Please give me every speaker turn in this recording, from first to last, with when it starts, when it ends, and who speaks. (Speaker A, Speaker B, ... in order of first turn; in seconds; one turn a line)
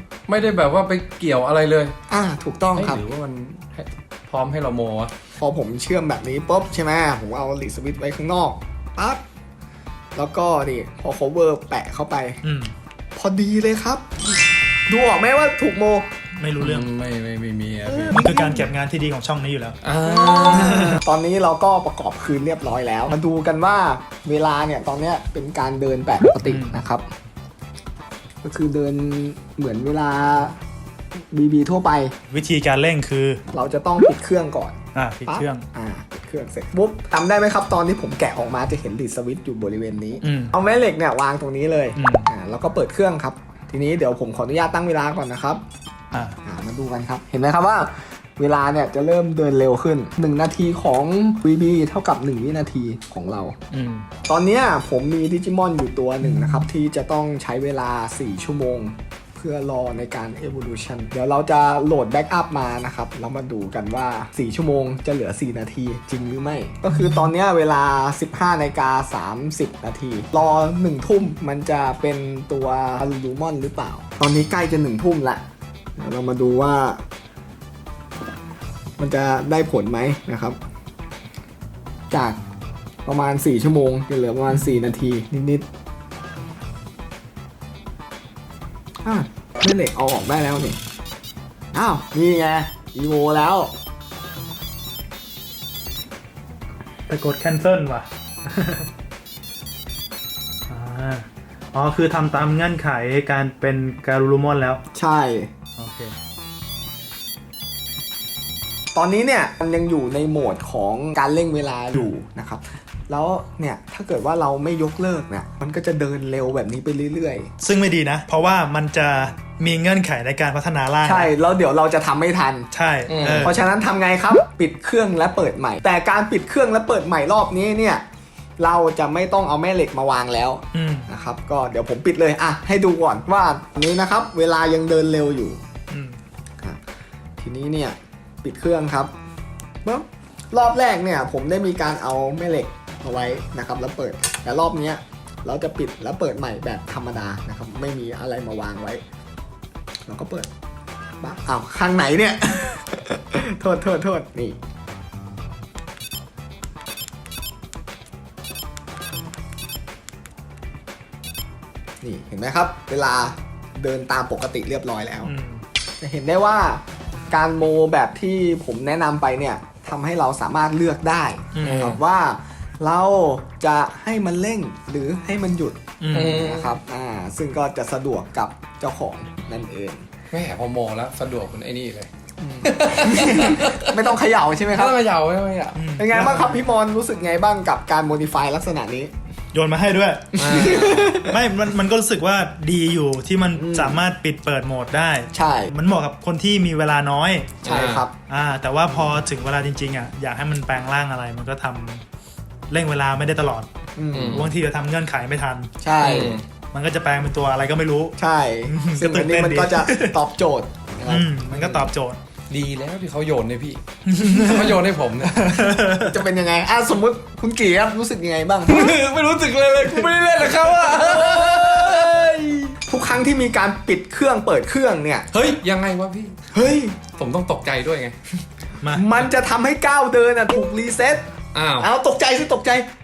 Speaker A: 0.3-1.9
Speaker B: 2.1-3.0
Speaker A: 2.8-5.1
Speaker B: 5.4-9.2
Speaker B: 10.2-12.4
Speaker C: 12.4-12.7
Speaker B: 13.2-14.0
Speaker B: 14.9-16.1
Speaker C: 16.4-16.9
Speaker A: 16.6-18.3
Speaker B: 17.9-18.6
Speaker C: 18.1-19.8
Speaker A: 19.8-21.0
Speaker B: 20.1-27.1
Speaker C: 20.5-21.0
Speaker C: 26.4-26.9
Speaker B: 28.4-30.6
Speaker B: 31.3-32.1
Speaker C: 32.3-33.4
Speaker B: 33.5-45.6
Speaker C: 35.0-35.6
Speaker C: 40.2-40.5
Speaker C: 42.0-42.3
Speaker B: 46.5-53.6
Speaker C: 53.7-54.1
Speaker B: 54.3-75.4
Speaker C: 56.2-56.7
Speaker C: 66.9-67.2
Speaker B: 76.0-77.0
Speaker B: 79.0-80.6
Speaker B: 82.1-82.4
Speaker B: 83.1-85.7
Speaker B: 89.0-90.8
Speaker B: 91.7-93.7
Speaker C: 97.1-98.9
Speaker C: 100.7-104.8
Speaker B: 105.0-105.5
Speaker C: 105.8-106.2
Speaker B: 108.9-117.5
Speaker C: 117.6-121.3
Speaker B: 121.0-122.7
Speaker C: 122.7-123.6
Speaker A: 123.1-123.5
Speaker B: 123.3-128.0
Speaker B: 128.6-135.6
Speaker C: 130.7-131.1
Speaker C: 135.9-136.2
Speaker B: 137.4-139.1
Speaker B: 139.8-149.0
Speaker B: 150.1-150.5
Speaker B: 151.2-154.6
Speaker B: 162.0-165.3
Speaker C: 165.2-165.6
Speaker B: 166.0-180.1
Speaker C: 171.6-171.9
Speaker A: 171.6-172.0
Speaker C: 176.0-176.4
Speaker A: 176.1-176.8
Speaker A: 180.3-182.1
Speaker B: 182.4-185.0
Speaker A: 182.7-184.1
Speaker A: 184.7-186.3
Speaker C: 185.8-186.6
Speaker B: 186.0-189.1
Speaker C: 189.5-197.5
Speaker A: 190.4-191.2
Speaker B: 190.4-191.3
Speaker B: 193.6-194.0
Speaker B: 195.3-195.7
Speaker A: 197.6-198.0
Speaker B: 197.7-198.1
Speaker C: 198.3-202.0
Speaker C: 202.7-203.7
Speaker B: 204.0-204.5
Speaker A: 204.1-204.5
Speaker C: 204.3-205.7
Speaker B: 205.8-206.4
Speaker A: 206.0-206.4
Speaker C: 206.7-208.2
Speaker B: 208.2-211.3
Speaker C: 208.7-210.2
Speaker C: 211.1-212.2
Speaker A: 211.6-211.9
Speaker A: 212.5-215.4
Speaker C: 214.1-216.2
Speaker B: 216.1-218.9
Speaker A: 218.7-222.7
Speaker B: 220.0-225.3
Speaker A: 225.3-226.4
Speaker B: 226.5-227.0
Speaker A: 227.2-228.2
Speaker C: 228.8-229.3
Speaker B: 228.9-231.2
Speaker A: 231.5-231.9
Speaker B: 231.8-232.9